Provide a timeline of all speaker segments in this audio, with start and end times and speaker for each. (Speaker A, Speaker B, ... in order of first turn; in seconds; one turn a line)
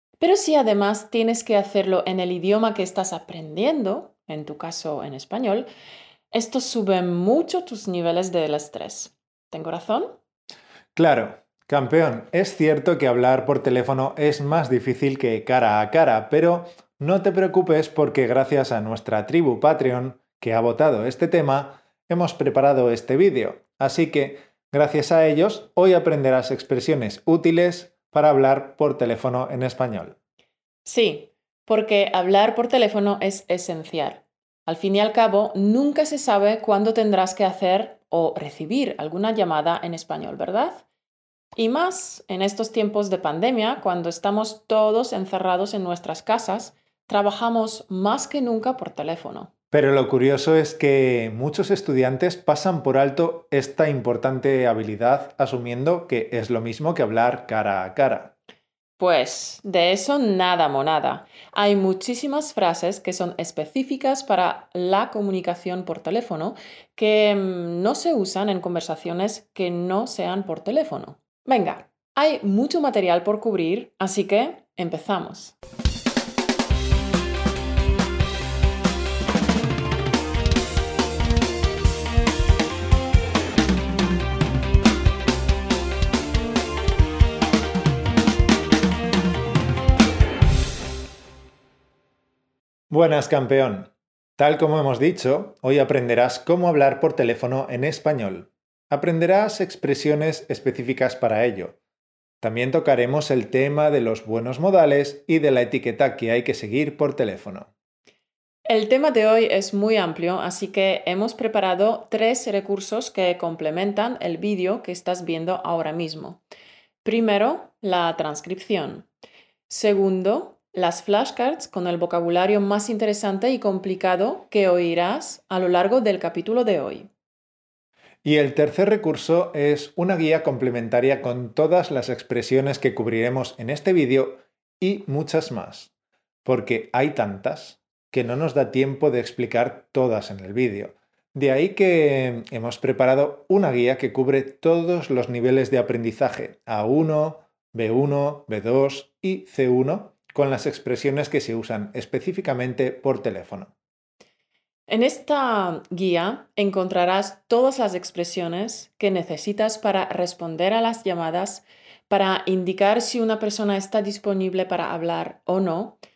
Speaker A: 0.2-5.7
Speaker A: 6.3-10.1
Speaker B: 10.9-30.1
Speaker A: 30.8-40.8
Speaker A: 41.5-49.5
Speaker B: 49.7-58.3
Speaker A: 59.0-75.5
Speaker B: 92.9-101.8
Speaker B: 102.4-107.7
Speaker A: 108.7-116.4
Speaker A: 117.0-119.1
Speaker A: 119.7-127.1
Speaker B: 128.2-135.9
Speaker B: 136.4-153.7
Speaker A: 154.9-166.0